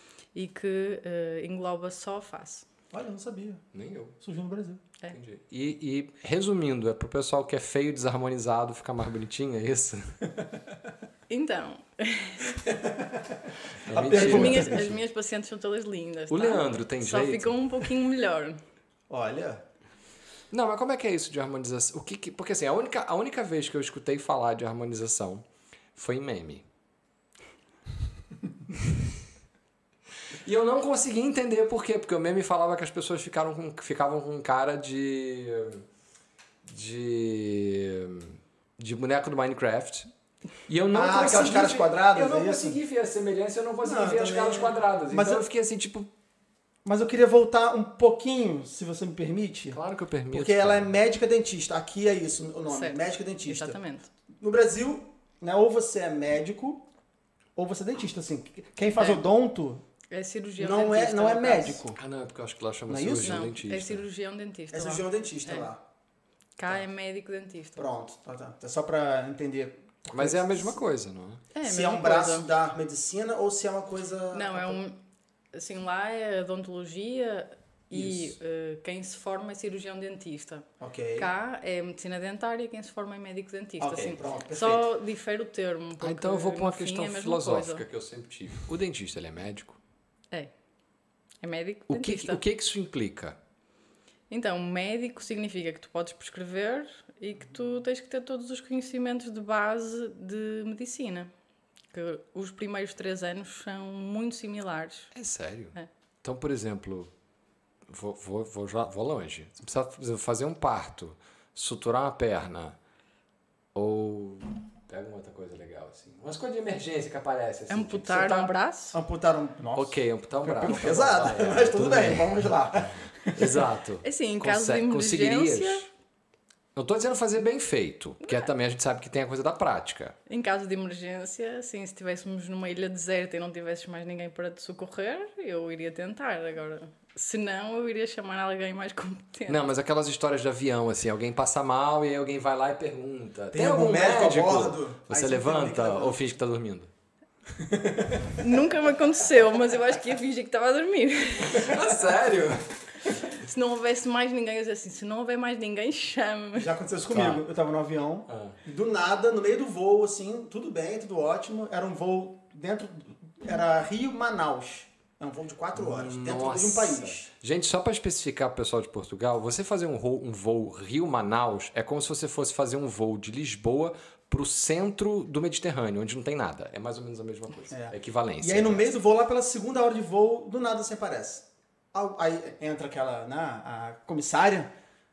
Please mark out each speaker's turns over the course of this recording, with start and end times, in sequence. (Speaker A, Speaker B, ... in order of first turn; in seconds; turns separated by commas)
Speaker A: 0.3-2.7, Speaker B: 2.9-3.6, Speaker C: 3.7-4.2, Speaker B: 4.2-4.8, Speaker C: 5.1-10.2, Speaker A: 11.3-12.6, Speaker B: 12.7-14.8, Speaker C: 13.8-15.0, Speaker A: 14.1-18.6, Speaker C: 16.3-17.5, Speaker B: 19.1-19.6, Speaker C: 20.5-26.6, Speaker C: 30.3-35.8, Speaker C: 36.6-40.1, Speaker C: 40.7-46.1, Speaker B: 40.9-42.8, Speaker B: 43.8-45.4, Speaker B: 46.8-49.8, Speaker C: 49.7-50.9, Speaker B: 50.3-53.8, Speaker A: 52.7-54.1, Speaker B: 54.3-56.9, Speaker B: 57.5-59.8, Speaker A: 59.0-59.2, Speaker A: 60.1-61.8, Speaker B: 60.6-62.0, Speaker C: 62.0-64.0, Speaker B: 62.9-63.5, Speaker A: 63.2-65.7, Speaker B: 64.7-65.8, Speaker A: 66.6-67.8, Speaker B: 67.8-70.8, Speaker C: 70.1-71.4, Speaker A: 71.5-72.5, Speaker B: 71.6-74.8, Speaker A: 74.3-75.0, Speaker A: 75.5-87.8, Speaker B: 77.9-78.3, Speaker B: 80.8-81.3, Speaker B: 83.8-84.9, Speaker C: 86.0-89.8, Speaker A: 91.4-92.4, Speaker C: 91.9-93.4, Speaker A: 94.3-101.3, Speaker A: 101.9-105.1, Speaker C: 105.1-107.1, Speaker C: 107.9-112.8, Speaker C: 113.7-118.5, Speaker A: 117.7-119.0, Speaker B: 118.9-123.6, Speaker C: 119.7-125.9, Speaker A: 124.0-125.9, Speaker C: 126.7-130.2, Speaker A: 128.2-128.5, Speaker A: 130.3-139.6, Speaker C: 139.5-146.9, Speaker B: 143.5-146.2, Speaker B: 147.6-148.4, Speaker A: 148.4-152.0, Speaker C: 151.5-152.9, Speaker A: 153.2-156.7, Speaker B: 156.5-167.3, Speaker C: 157.1-157.4, Speaker C: 158.3-158.6, Speaker C: 165.7-178.9, Speaker B: 177.7-184.7